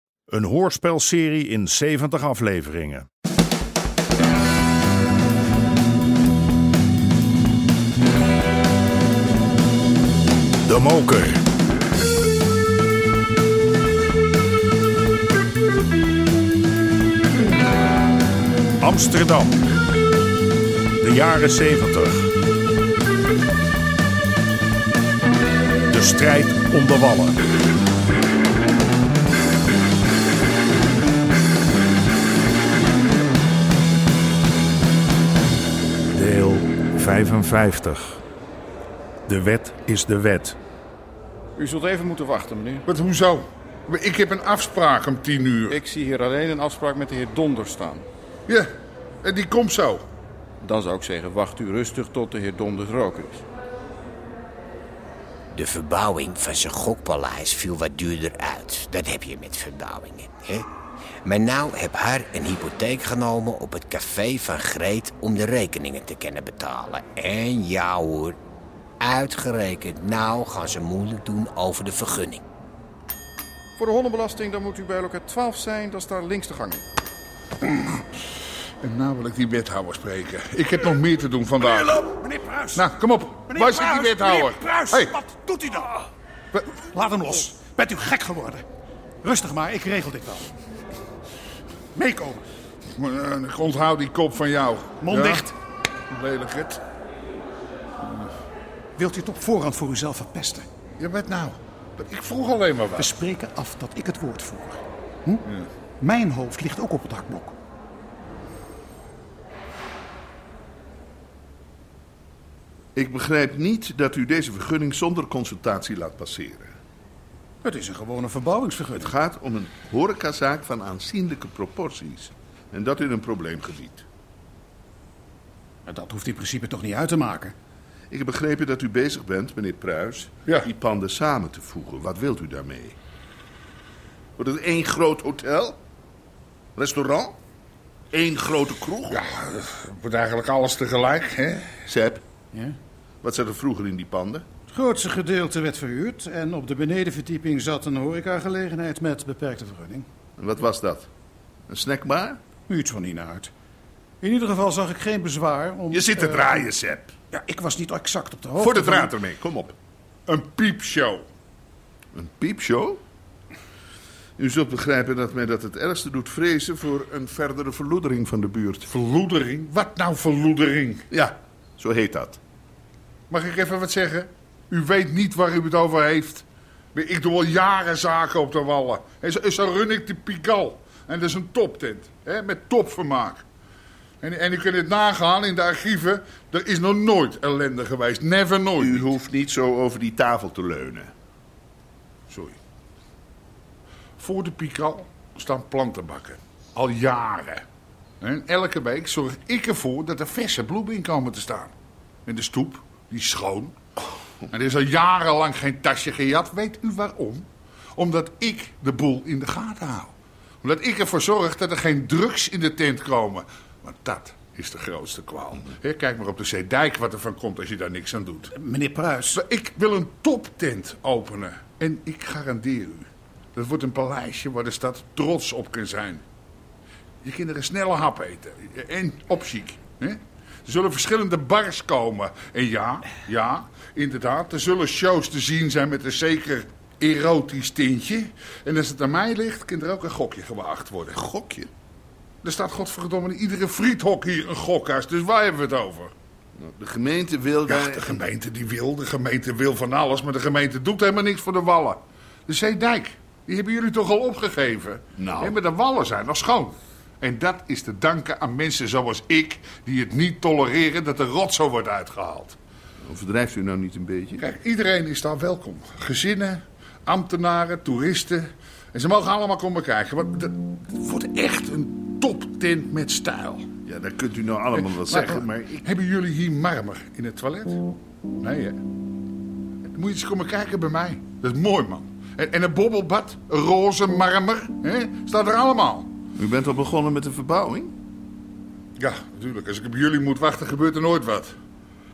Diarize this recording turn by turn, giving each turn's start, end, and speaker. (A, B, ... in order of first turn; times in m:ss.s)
0:00.3-0:03.0 A
0:10.6-0:11.4 A
0:18.8-0:19.6 A
0:21.0-0:22.3 A
0:25.9-0:27.4 A
0:36.1-0:38.2 A
0:39.3-0:40.6 A
0:41.6-0:42.8 B
0:42.9-0:45.8 C
0:45.7-0:48.1 B
0:49.2-0:50.0 C
0:50.6-0:53.4 B
0:55.5-1:00.6 D
1:01.2-1:08.4 D
1:09.0-1:12.4 D
1:13.8-1:16.8 B
1:18.8-1:22.1 C
1:21.6-1:22.9 E
1:22.7-1:25.2 C
1:23.4-1:26.1 E
1:26.7-1:28.6 E
1:29.2-1:30.5 E
1:31.9-1:32.4 E
1:33.0-1:35.5 C
1:35.0-1:35.5 E
1:36.1-1:36.8 C
1:38.0-1:38.3 C
1:39.0-1:40.6 E
1:41.0-1:43.2 C
1:43.0-1:45.4 E
1:46.0-1:47.5 E
1:53.0-1:56.7 F
1:57.6-1:59.1 E
1:58.9-2:04.0 F
2:05.9-2:07.5 E
2:08.1-2:13.0 F
2:14.4-2:15.8 F
2:16.8-2:17.4 F
2:18.1-2:19.2 F
2:19.1-2:21.8 C
2:21.9-2:22.2 F
2:23.2-2:24.4 F
2:24.7-2:30.0 E
2:30.4-2:31.1 F
2:31.7-2:32.4 F
2:32.7-2:33.5 E
2:34.2-2:36.6 E
2:35.9-2:37.1 F
2:37.3-2:39.1 E
2:38.6-2:39.8 F
2:40.3-2:41.2 C
2:42.1-2:43.0 F
2:44.4-2:48.9 F
2:48.9-2:51.0 C
2:51.1-2:52.4 F
2:53.3-3:03.4 C
3:04.2-3:09.1 C
3:08.8-3:11.1 F
3:12.3-3:12.6 C
3:14.2-3:17.6 C
3:18.2-3:21.7 C
3:22.2-3:23.8 C
3:24.5-3:38.5 C
3:38.5-3:39.4 E
3:39.3-3:46.2 C
3:47.2-4:01.2 C
4:01.1-4:01.7 F
4:02.4-4:06.1 C
4:06.6-4:08.2 F
4:07.7-4:22.6 C
4:15.2-4:15.6 F
4:23.0-4:24.4 F
4:24.4-4:33.7 C
4:33.9-4:35.8 F
4:34.7-4:37.8 C
4:38.4-4:38.8 C
4:39.9-4:46.1 C
4:46.4-4:47.9 F
4:49.0-4:51.5 C